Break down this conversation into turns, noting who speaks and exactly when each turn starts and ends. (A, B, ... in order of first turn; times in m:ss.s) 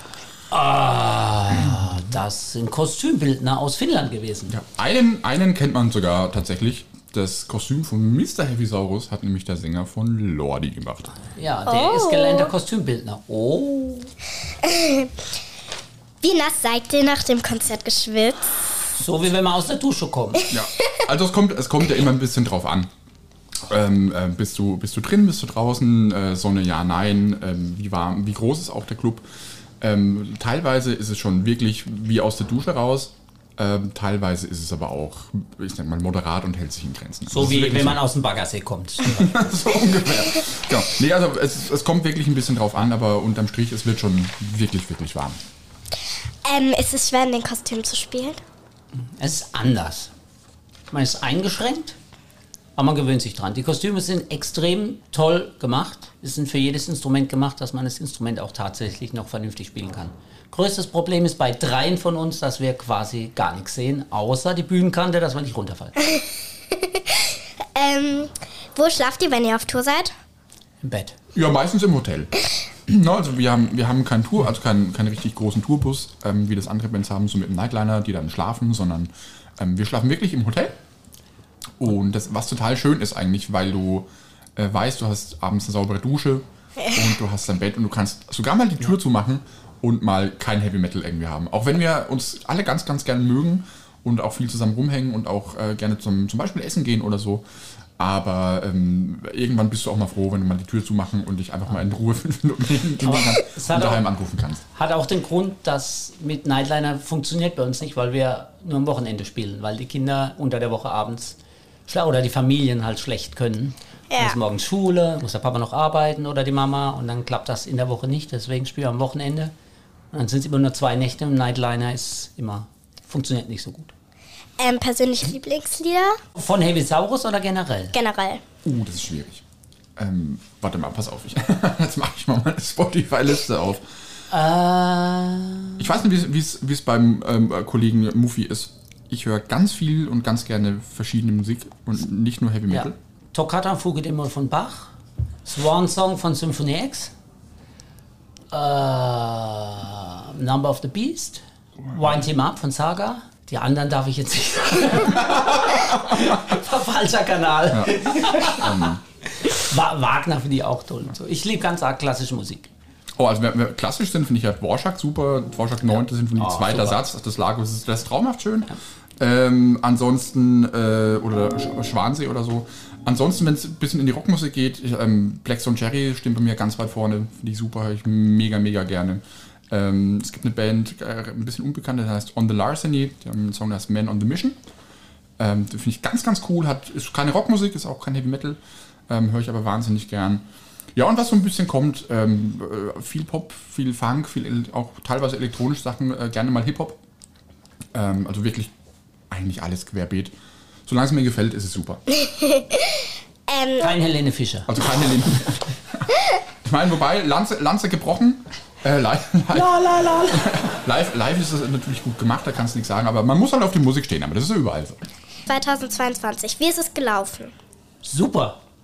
0:00.5-0:04.5 A
0:04.5-0:11.1 B
0:11.4-0:14.1 A
0:11.7-0:12.5 C
0:14.6-0:15.1 C
0:16.2-0:18.5 C
0:18.9-0:20.4 A
0:20.5-0:22.9 B
0:23.7-0:29.2 B
0:29.8-0:38.0 B
0:37.3-0:39.4 A
0:39.0-0:45.4 B
0:46.4-0:48.4 C
0:49.2-0:50.1 A
0:50.9-0:52.0 A
0:52.8-1:05.9 A
1:06.7-1:10.1 C
1:10.8-1:11.2 A
1:11.3-1:12.3 B
1:12.9-1:20.8 B
1:21.8-1:37.4 B
1:38.0-1:44.6 B
1:43.0-1:44.0 A
1:44.6-1:59.5 A
1:54.1-1:54.4 C
2:00.1-2:03.9 A
2:04.6-2:06.2 C
2:06.4-2:07.9 A
2:07.9-2:08.4 C
2:08.6-2:09.4 B
2:10.0-2:13.8 B
2:14.3-2:15.8 A
2:15.8-2:23.0 B
2:22.7-2:24.9 A
2:25.4-2:27.1 A
2:28.5-2:42.7 A
2:37.7-2:39.0 B
2:43.2-3:04.6 B
2:46.3-2:47.0 A
3:05.4-3:10.4 B
3:11.0-3:17.0 B
3:17.9-3:18.7 B
3:19.3-3:20.3 B
3:20.9-3:22.0 B
3:22.1-3:23.9 C
3:23.8-3:24.7 A
3:24.7-3:26.0 B
3:26.6-3:35.0 B
3:29.5-3:30.5 A
3:35.5-3:37.5 C
3:38.0-3:38.6 A